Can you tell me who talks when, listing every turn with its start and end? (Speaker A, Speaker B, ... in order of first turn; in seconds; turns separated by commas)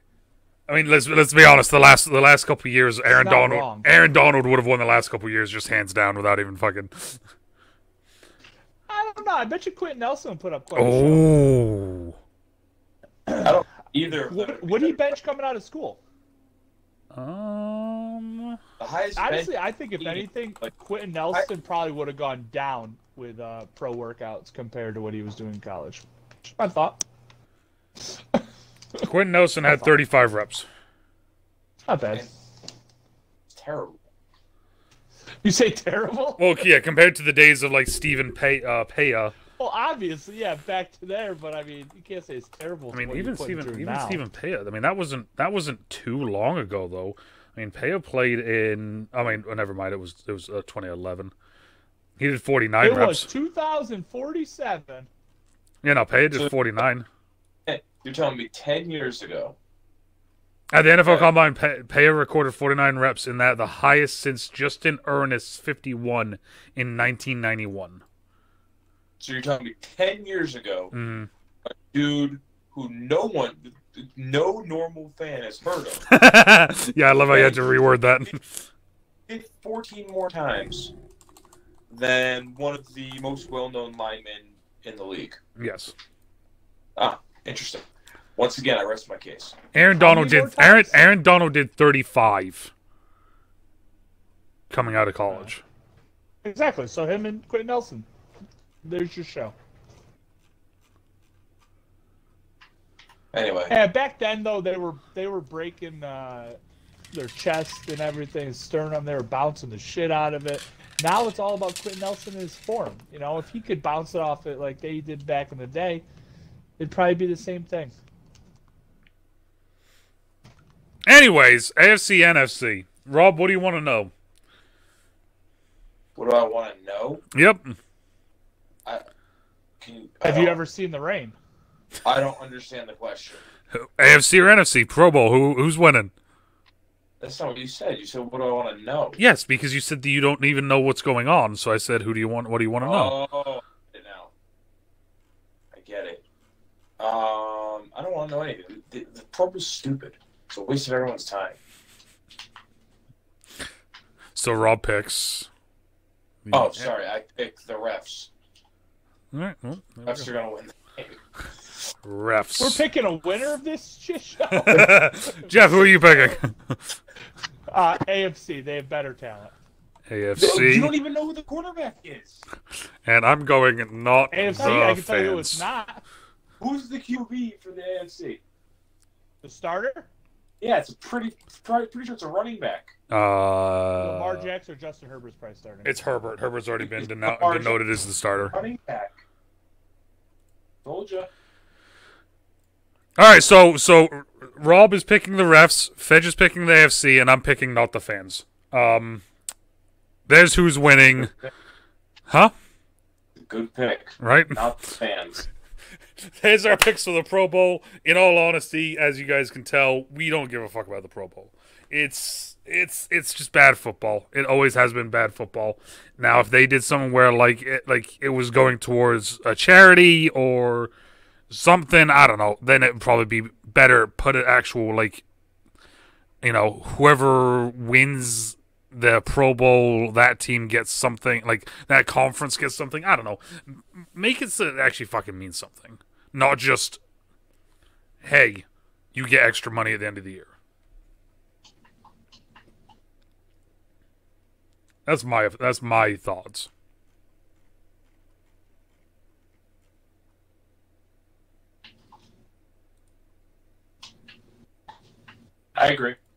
Speaker A: 0.7-7.2, Speaker B: 3.1-3.9, Speaker B: 8.9-11.3, Speaker A: 10.8-12.2, Speaker C: 13.3-15.2, Speaker B: 14.1-16.0, Speaker A: 17.1-18.6, Speaker C: 18.8-20.7, Speaker B: 19.2-27.0, Speaker A: 29.0-30.6, Speaker B: 31.9-32.3, Speaker C: 33.5-34.0, Speaker B: 35.4-36.4, Speaker A: 36.4-39.3, Speaker B: 39.6-44.2, Speaker A: 42.9-51.3, Speaker A: 52.2-53.3, Speaker B: 52.8-55.1, Speaker A: 55.8-57.0, Speaker C: 57.6-59.5, Speaker A: 60.7-68.0, Speaker C: 61.0-61.3, Speaker C: 69.2-70.9, Speaker A: 70.9-71.3, Speaker C: 71.7-76.0, Speaker A: 76.1-78.6, Speaker C: 77.3-78.3, Speaker C: 79.3-80.9, Speaker C: 81.9-85.4, Speaker A: 85.6-85.9, Speaker C: 87.0-89.6, Speaker A: 89.7-92.7, Speaker B: 89.9-91.0, Speaker A: 94.7-95.6, Speaker B: 96.4-98.1, Speaker B: 98.8-99.5, Speaker C: 103.3-103.8, Speaker B: 103.7-106.6, Speaker B: 107.1-116.0, Speaker B: 116.8-117.9, Speaker A: 121.0-124.1, Speaker C: 126.2-127.2, Speaker A: 127.3-127.7, Speaker C: 129.8-130.6, Speaker B: 130.2-131.4, Speaker C: 132.0-133.4, Speaker A: 133.7-136.1, Speaker C: 137.2-139.2, Speaker A: 139.2-143.2, Speaker C: 142.8-144.3, Speaker C: 145.7-146.2, Speaker C: 147.0-151.6, Speaker A: 154.3-155.5, Speaker A: 156.4-156.9, Speaker C: 156.5-158.3, Speaker A: 159.3-160.3, Speaker C: 160.1-161.2, Speaker A: 162.0-162.8, Speaker B: 162.6-166.3, Speaker A: 164.5-166.9, Speaker C: 164.6-164.9, Speaker B: 167.7-169.5, Speaker A: 170.1-170.9, Speaker C: 170.4-172.4, Speaker A: 173.0-175.7, Speaker B: 174.3-176.0, Speaker C: 174.6-174.8, Speaker C: 176.6-178.4, Speaker B: 179.4-180.1, Speaker C: 180.6-182.9, Speaker A: 183.1-184.5, Speaker B: 184.0-186.3, Speaker A: 185.8-188.6, Speaker C: 186.8-187.8, Speaker C: 188.5-189.2, Speaker C: 190.8-191.3, Speaker A: 193.2-199.2, Speaker A: 200.3-201.3, Speaker C: 203.4-205.5, Speaker A: 204.2-204.7, Speaker A: 206.2-220.9, Speaker A: 221.5-225.2, Speaker A: 226.4-237.0, Speaker A: 238.2-240.5, Speaker A: 245.1-246.7, Speaker C: 255.7-256.2